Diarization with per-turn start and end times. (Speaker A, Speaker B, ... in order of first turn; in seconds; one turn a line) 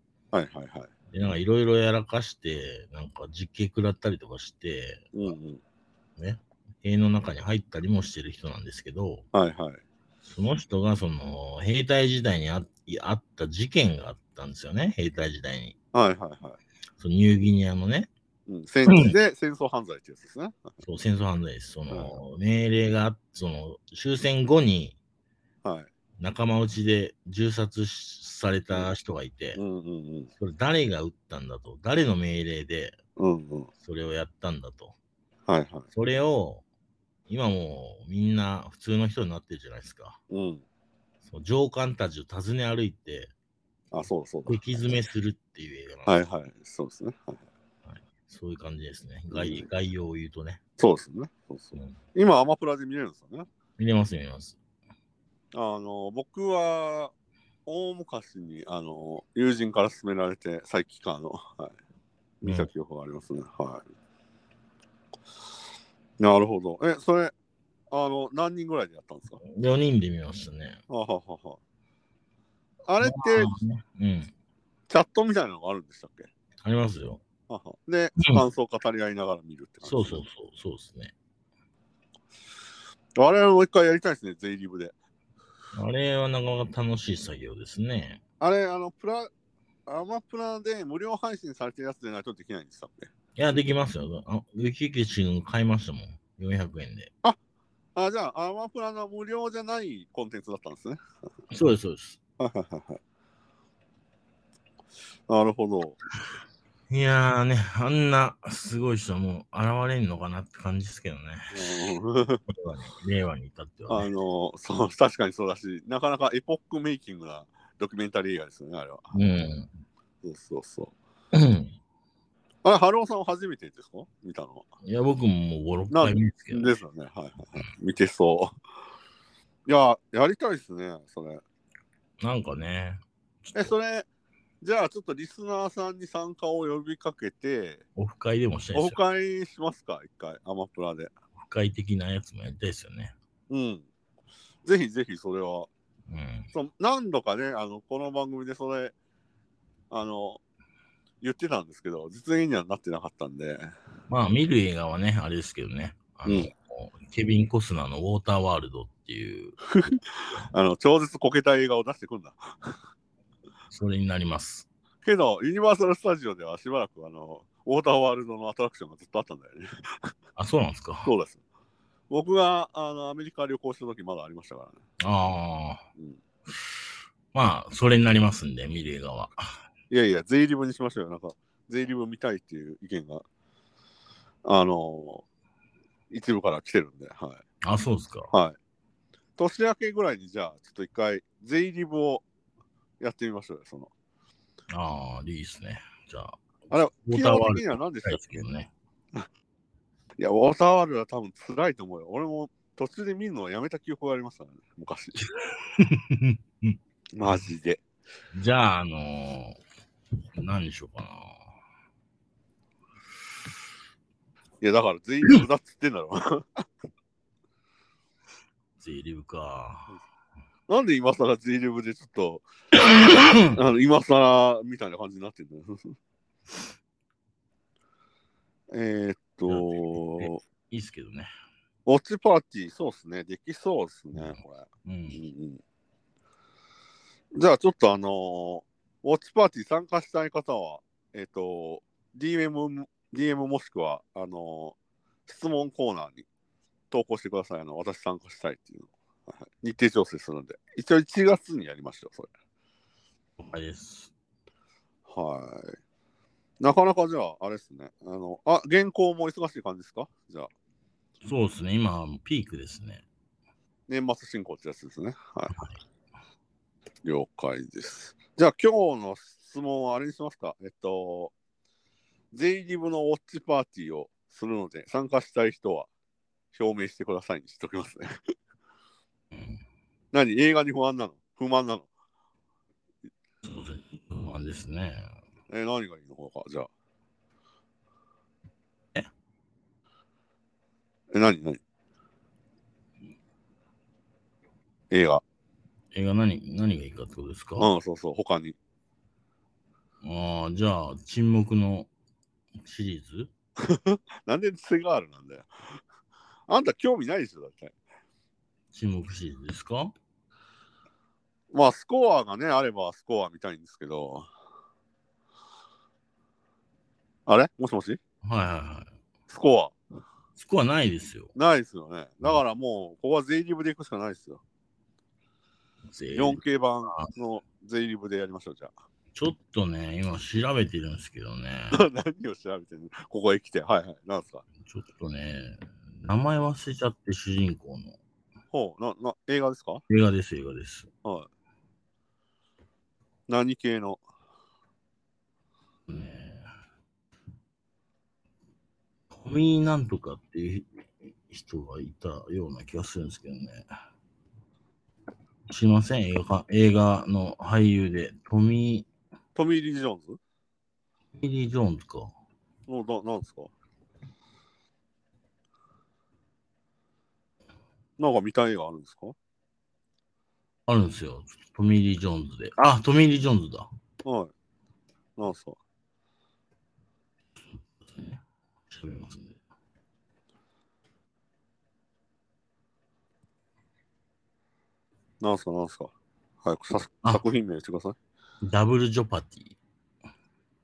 Speaker A: 0.3-0.9
Speaker B: 1.1-5.1
Speaker A: 5.1-5.6
Speaker B: 6.2-9.2
Speaker A: 9.3-9.8
Speaker B: 10.2-15.7
Speaker A: 15.9-16.6
Speaker B: 17.0-18.1
Speaker A: 18.5-20.7
Speaker B: 18.9-19.1
Speaker B: 20.8-25.0
Speaker A: 21.9-22.2
Speaker A: 25.6-25.9
Speaker B: 26.2-29.6
Speaker A: 29.5-30.3
Speaker B: 30.4-33.0
Speaker A: 33.2-33.7
Speaker B: 33.8-34.9
Speaker A: 35.5-35.9
Speaker B: 35.9-36.6
Speaker B: 37.3-40.2
Speaker A: 40.3-40.6
Speaker B: 41.2-43.3
Speaker A: 43.9-44.6
Speaker B: 44.5-46.1
Speaker A: 46.0-47.4
Speaker B: 47.9-50.6
Speaker A: 49.3-49.7
Speaker A: 50.8-53.5
Speaker B: 53.8-54.6
Speaker A: 55.5-57.1
Speaker A: 57.6-61.8
Speaker A: 62.4-63.8
Speaker B: 62.4-62.7
Speaker A: 66.2-67.3
Speaker A: 67.9-69.4
Speaker B: 69.4-70.8
Speaker A: 70.9-71.6
Speaker A: 72.8-73.6
Speaker B: 73.0-74.3
Speaker A: 74.9-76.3
Speaker B: 76.6-77.2
Speaker A: 77.5-80.2
Speaker B: 79.8-81.1
Speaker A: 83.2-84.9
Speaker B: 85.7-88.2
Speaker A: 88.4-89.3
Speaker A: 89.8-93.1
Speaker B: 93.3-97.1
Speaker A: 97.9-101.0
Speaker B: 101.5-102.2
Speaker A: 102.4-103.0
Speaker A: 105.3-106.0
Speaker B: 106.9-111.9
Speaker A: 111.5-112.4
Speaker B: 112.5-114.1
Speaker A: 113.9-119.2
Speaker B: 119.1-119.7
Speaker A: 120.2-120.9
Speaker B: 121.3-121.7
Speaker A: 122.6-124.7
Speaker B: 124.8-126.7
Speaker A: 125.9-128.5
Speaker A: 129.7-131.4
Speaker B: 132.2-133.7
Speaker A: 133.5-134.1
Speaker A: 134.6-137.8
Speaker B: 137.9-139.0
Speaker A: 138.7-141.1
Speaker B: 141.4-143.1
Speaker A: 143.5-143.8
Speaker A: 144.6-145.7
Speaker B: 146.1-146.5
Speaker A: 146.5-148.9
Speaker A: 149.9-150.4
Speaker A: 151.2-153.7
Speaker B: 154.1-159.6
Speaker A: 156.2-156.5
Speaker A: 159.7-162.8
Speaker B: 163.7-164.7
Speaker A: 165.0-170.1
Speaker B: 170.3-171.1
Speaker A: 171.0-171.4
Speaker A: 172.1-174.8
Speaker B: 175.0-175.8
Speaker B: 177.3-179.4
Speaker A: 179.9-183.2
Speaker A: 184.4-185.2
Speaker A: 186.1-187.4
Speaker B: 187.6-188.3
Speaker A: 188.3-188.6
Speaker A: 189.4-192.2
Speaker A: 193.0-193.9
Speaker B: 194.7-196.4
Speaker A: 196.7-198.2
Speaker B: 197.1-198.7
Speaker A: 200.2-205.3
Speaker B: 205.4-206.8
Speaker A: 207.1-207.8
Speaker B: 208.3-209.6
Speaker B: 210.3-211.5
Speaker A: 214.6-216.6
Speaker B: 218.8-220.0
Speaker A: 220.7-222.4
Speaker B: 222.8-223.5
Speaker A: 223.5-225.9
Speaker A: 228.7-230.4
Speaker B: 229.5-231.3
Speaker A: 231.8-235.6
Speaker B: 234.1-235.2
Speaker A: 237.3-246.2
Speaker A: 246.9-252.3
Speaker B: 253.4-254.1
Speaker A: 255.1-255.8
Speaker A: 256.6-260.5
Speaker B: 261.2-263.0
Speaker A: 263.9-265.6
Speaker A: 267.0-271.3
Speaker A: 272.3-275.9
Speaker A: 276.5-278.2
Speaker B: 279.3-279.6
Speaker A: 280.1-281.9
Speaker B: 283.4-285.1
Speaker A: 285.5-286.7
Speaker A: 291.1-291.6
Speaker A: 294.9-295.2
Speaker B: 295.9-297.7
Speaker A: 297.6-298.6
Speaker B: 300.0-301.9
Speaker B: 302.6-303.3
Speaker A: 303.6-305.5
Speaker A: 306.5-307.7
Speaker B: 308.7-309.9
Speaker A: 311.5-314.3
Speaker A: 317.3-318.0
Speaker B: 318.2-318.9
Speaker A: 319.3-319.8
Speaker B: 320.4-321.3
Speaker A: 321.3-324.4
Speaker B: 325.9-327.1
Speaker A: 326.1-328.7
Speaker B: 329.1-331.8
Speaker A: 331.7-334.4
Speaker B: 334.6-338.0
Speaker A: 338.5-339.8
Speaker B: 339.9-340.9
Speaker A: 341.0-341.3
Speaker A: 343.3-344.0
Speaker B: 345.9-346.5
Speaker B: 349.1-353.7
Speaker B: 355.5-358.9
Speaker A: 359.3-360.2
Speaker B: 361.1-362.1
Speaker A: 362.7-363.5
Speaker A: 368.0-369.1
Speaker B: 370.7-373.7
Speaker A: 374.0-374.3
Speaker A: 375.2-375.6
Speaker B: 377.6-379.4
Speaker A: 385.2-385.9
Speaker A: 386.4-387.9
Speaker B: 388.4-389.6